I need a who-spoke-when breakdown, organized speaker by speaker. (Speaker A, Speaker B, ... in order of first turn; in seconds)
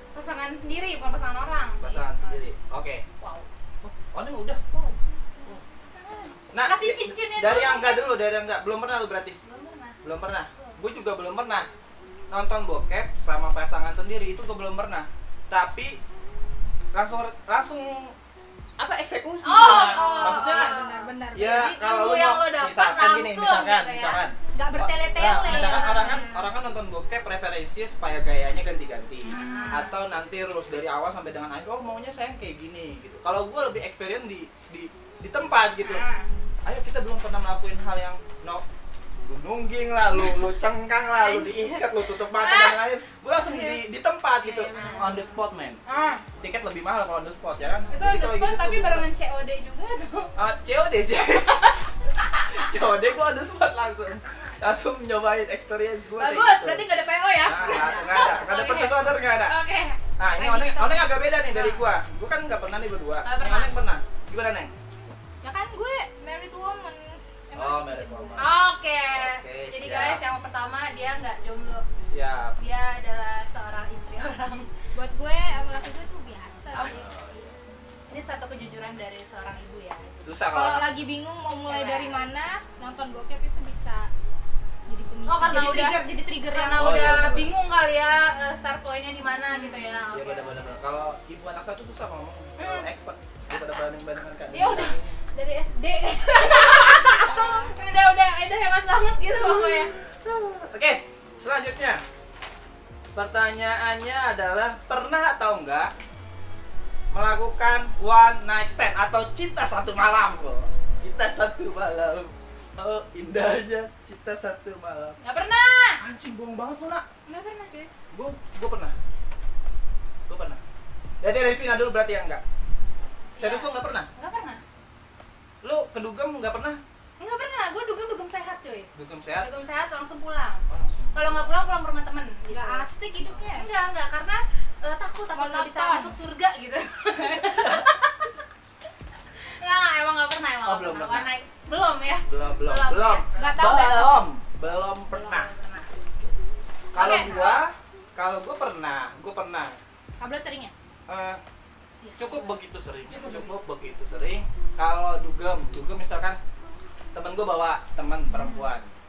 Speaker A: 0.1-2.4, 3.2-3.5, 4.7-7.9, 9.4-10.8, 19.4-21.1, 21.7-24.2, 25.4-26.2, 29.2-30.0, 35.8-36.3, 41.5-42.8, 44.7-46.3, 47.9-50.3, 52.2-52.7, 56.2-60.0, 61.5-61.9, 63.2-63.8, 68.4-71.8, 72.6-74.7, 78.1-80.3, 81.7-82.3, 85.3-90.7, 92.6-92.9, 94.5-99.9, 115.2-116.0, 117.3-117.9, 123.4-124.6, 127.2-132.9, 133.5-138.3, 139.4-143.3, 145.1-146.0, 146.9-147.6
Speaker B: 1.8-3.1, 3.8-4.6, 6.5-9.4, 10.0-11.7, 12.3-16.0, 16.9-18.1, 18.8-20.8, 21.3-36.0, 36.6-38.6, 39.2-45.8, 46.3-49.1, 50.4-51.7, 52.3-56.9, 57.4-59.6, 60.2-64.7, 67.5-70.2, 72.0-72.6, 76.7-77.5, 80.2-80.9, 86.7-87.5, 90.1-95.1, 99.8-102.0, 103.2-105.9, 107.1-115.2, 116.0-117.0, 118.1-119.0, 120.3-120.6, 121.2-122.4, 123.4-124.1, 125.6-126.8, 128.9-129.5, 130.7-131.6, 140.7-141.3, 142.3-145.5, 146.9-149.8, 151.1-151.4, 152.1-156.4, 157.2-158.9
Speaker C: 7.4-8.0, 19.5-21.9, 24.5-26.5, 29.5-29.8, 43.4-43.8, 44.4-45.3, 57.6-58.3, 60.4-61.1, 65.4-68.5, 75.0-77.1, 80.5-84.1, 84.9-87.2, 89.5-90.0, 96.9-97.7, 132.5-133.7, 135.3-136.2, 143.3-144.2, 150.2-150.7, 152.0-152.5, 153.1-153.5, 158.3-158.7